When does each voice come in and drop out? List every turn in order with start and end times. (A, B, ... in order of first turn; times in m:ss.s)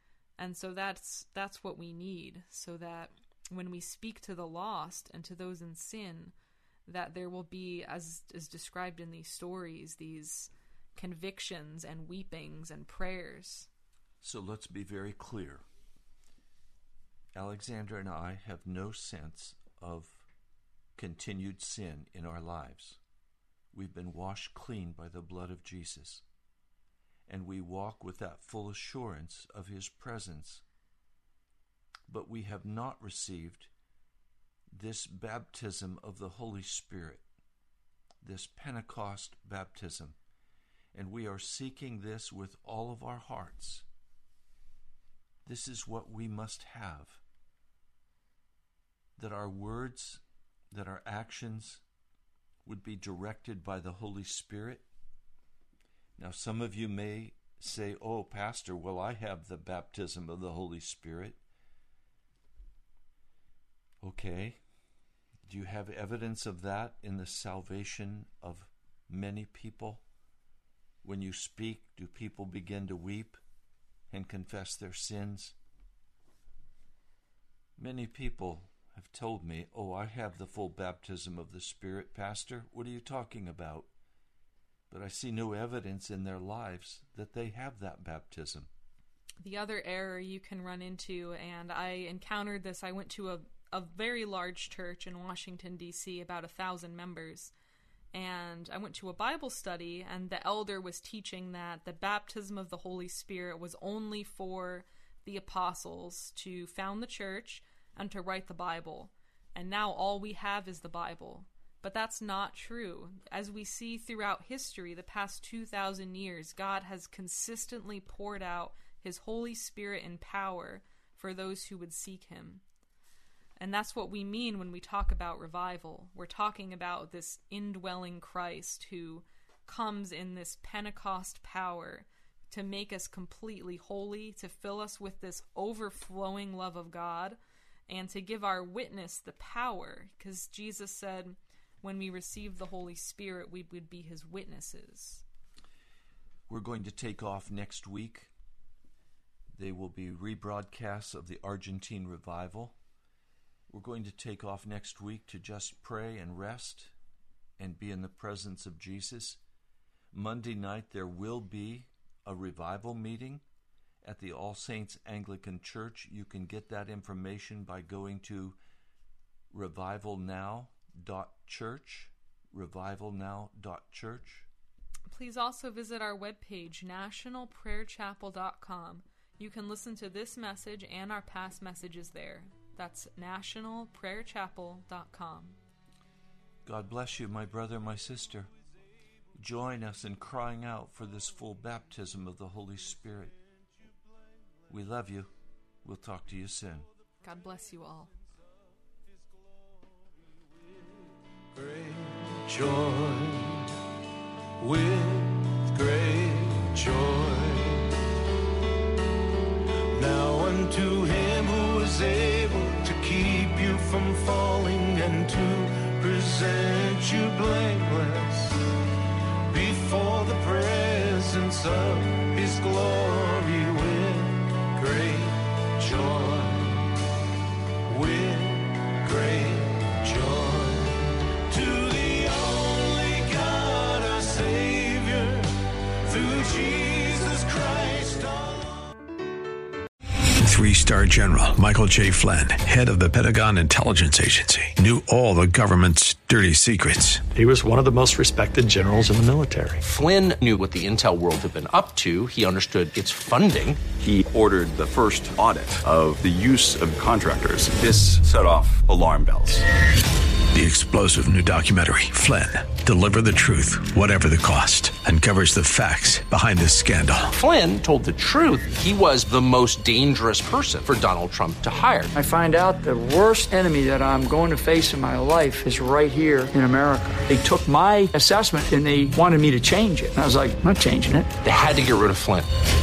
0:00.4-0:06.3 A
0:06.8-0:13.7 A
0:14.2-0:15.6 B
0:17.3-0:20.2 B
0:21.0-0:23.0 B
0:23.7-0:26.2 B
0:27.3-0:30.6 B
0:32.1-0:33.7 B
0:34.7-0:37.2 B
0:38.2-0:40.2 B
0:40.9-0:43.8 B
0:45.4-0:47.2 B
0:49.2-0:51.8 B
0:52.6-0:54.8 B
0:56.2-1:01.4 B
1:04.0-1:04.6 B
1:05.4-1:10.0 B
1:11.0-1:13.4 B
1:14.1-1:15.6 B
1:17.8-1:23.9 B
1:24.9-1:28.7 B
1:29.4-1:37.5 A
1:38.1-2:02.6 A
2:03.6-2:25.2 A
2:26.5-2:28.3 B
2:29.5-2:32.8 B
2:33.7-2:36.9 B
2:37.6-2:39.4 B
2:40.1-2:43.4 B
2:44.0-2:48.6 B
2:49.5-2:54.5 B
2:55.1-3:05.6 A
3:06.6-3:08.5 B
3:09.3-3:13.3 B
3:14.7-3:15.3 B
3:15.8-3:16.9 B
3:17.2-3:18.1 A
3:19.7-3:20.1 C
3:20.7-3:21.0 C
3:21.5-3:23.7 C
3:24.6-3:28.0 C
3:29.9-3:38.6 C
3:39.5-3:47.0 C
3:47.9-3:58.8 C
4:00.4-4:07.3 D
4:07.3-4:09.8 E
4:09.8-4:13.8 F
4:14.0-4:19.6 G
4:20.5-4:27.3 D
4:27.3-4:32.1 F
4:32.1-4:41.3 H
4:41.4-4:42.5 F